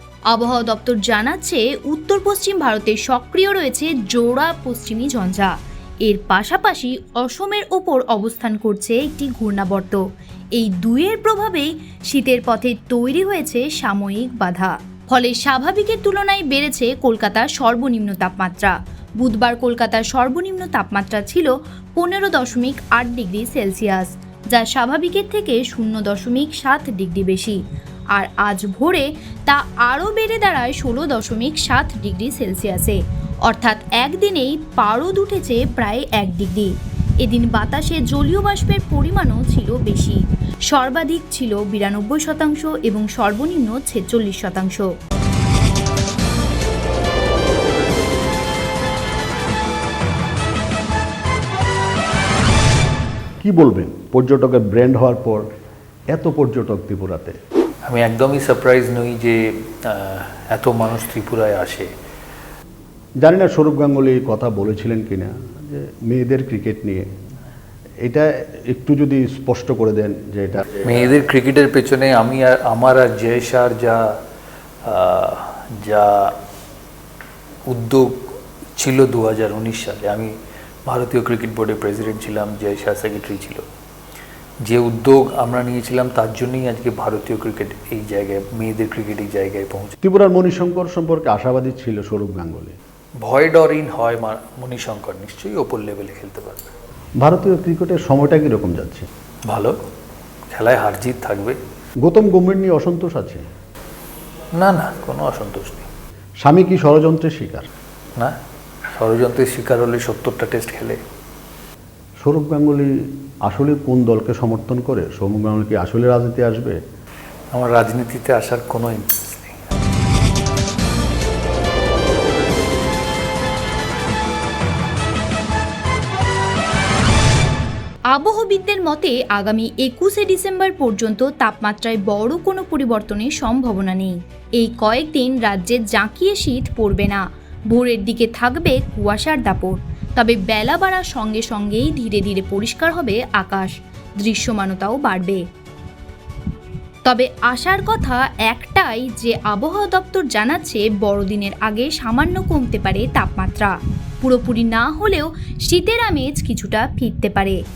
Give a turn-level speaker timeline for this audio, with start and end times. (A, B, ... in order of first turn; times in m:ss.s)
0:00.3-0:05.5 A
0:06.0-0:10.0 A
0:10.5-0:27.6 A
0:28.1-0:44.9 A
0:53.4-0:55.5 B
0:56.1-0:57.3 B
0:57.8-1:01.9 C
1:03.2-1:07.0 B
1:08.0-1:10.8 B
1:10.8-1:14.0 C
1:14.8-1:16.3 C
1:17.7-1:20.3 C
1:20.8-1:23.6 C
1:24.6-1:29.9 C
1:30.0-1:32.8 B
1:33.2-1:36.7 C
1:37.2-1:39.1 B
1:39.5-1:39.8 C
1:40.5-1:41.6 C
1:42.0-1:43.4 B
1:44.6-1:45.8 C
1:46.4-1:47.7 B
1:48.9-1:51.0 C
1:52.2-1:52.9 B
1:53.4-1:56.8 B
1:57.5-1:59.6 C
2:08.1-2:25.4 A
2:27.0-2:37.6 A